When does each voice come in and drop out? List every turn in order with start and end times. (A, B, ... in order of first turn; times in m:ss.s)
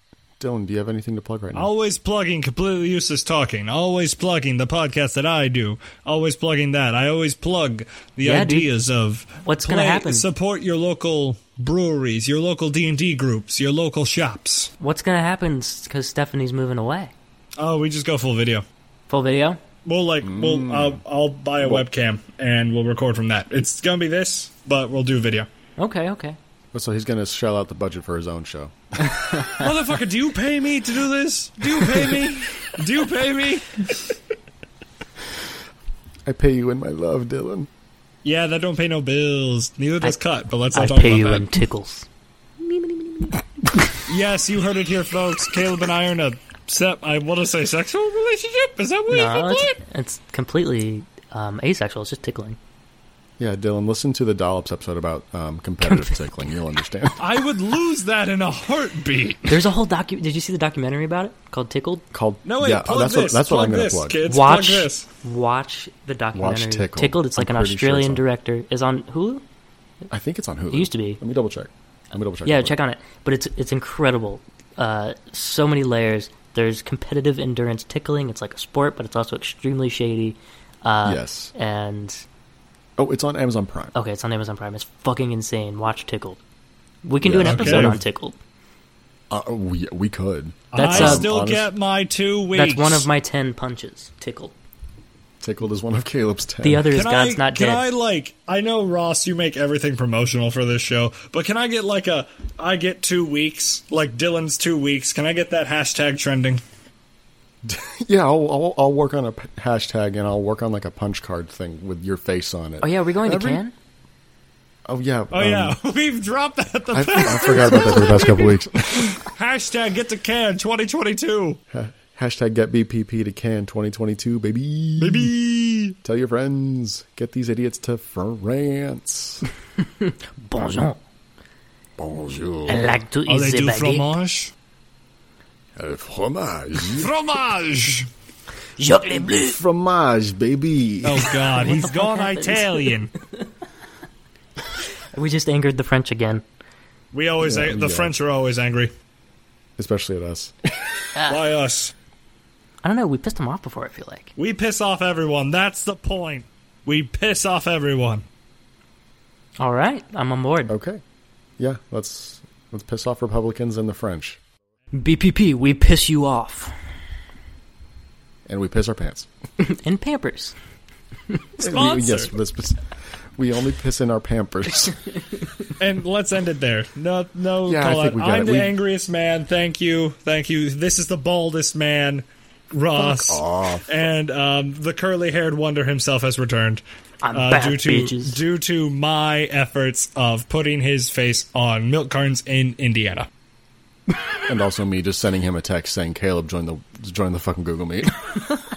0:00.4-0:01.7 A
0:01.5-0:14.7 B
0:08.2-0:08.7 C
0:09.4-0:10.3 C
0:14.8-0:17.1 C
0:17.6-0:18.6 B
0:19.1-0:19.6 C
0:19.8-0:25.5 B
0:20.2-0:21.0 A
0:21.6-0:21.8 A
0:25.8-0:26.4 C
0:26.7-0:29.3 A
0:29.0-0:29.7 C
0:29.6-0:34.1 B
0:36.3-0:37.7 A
0:38.2-0:41.6 B
0:40.7-0:42.1 C
0:42.6-0:43.9 C
0:44.1-0:49.8 B
0:49.1-0:52.6 C
0:53.4-0:57.2 A
0:55.8-0:56.6 C
0:57.2-0:59.7 B
0:59.5-1:02.1 C
1:02.1-1:04.2 A
1:02.4-1:05.1 B
1:04.3-1:09.4 C
1:06.3-1:08.2 A
1:10.1-1:12.8 A
1:10.7-1:11.2 C
1:12.4-1:22.2 C
1:21.0-1:21.5 A
1:23.0-1:23.9 A
1:24.0-1:26.4 C
1:27.0-1:28.4 C
1:27.2-1:28.0 A
1:27.4-1:28.0 B
1:29.3-1:31.7 A
1:30.7-1:33.1 B
1:30.7-1:31.3 C
1:32.5-1:34.6 C
1:35.4-1:36.9 A
1:36.6-1:37.9 C
1:36.9-1:46.6 B
1:47.6-1:53.6 A
1:52.8-1:53.7 C
1:54.9-1:55.8 A
1:55.3-2:01.6 B
1:56.9-1:59.3 A
2:01.7-2:05.3 A
2:05.0-2:06.0 B
2:06.0-2:09.4 A
2:09.8-2:11.0 C
2:12.0-2:13.0 A
2:12.7-2:14.1 C
2:13.3-2:14.5 B
2:15.8-2:17.1 A
2:16.8-2:18.1 B
2:18.8-2:19.6 C
2:19.1-2:21.4 A
2:21.0-2:23.1 B
2:21.3-2:23.0 C
2:25.1-2:26.4 C
2:27.1-2:28.9 B
2:27.4-2:28.2 A
2:29.8-2:30.5 A
2:31.1-2:31.5 C
2:31.2-2:31.9 B
2:32.8-2:34.3 C
2:34.4-2:38.2 B
2:39.6-2:40.7 C
2:40.7-2:41.0 A
2:41.6-2:44.4 A
2:44.9-2:46.7 C
2:48.5-2:49.3 A
2:49.6-2:50.6 C
2:51.6-2:52.8 A
2:51.6-2:52.3 B
2:53.4-2:55.0 A
2:55.8-3:13.3 B
2:57.6-2:58.7 A
3:03.0-3:04.0 A
3:07.2-3:08.4 C
3:14.5-3:18.3 A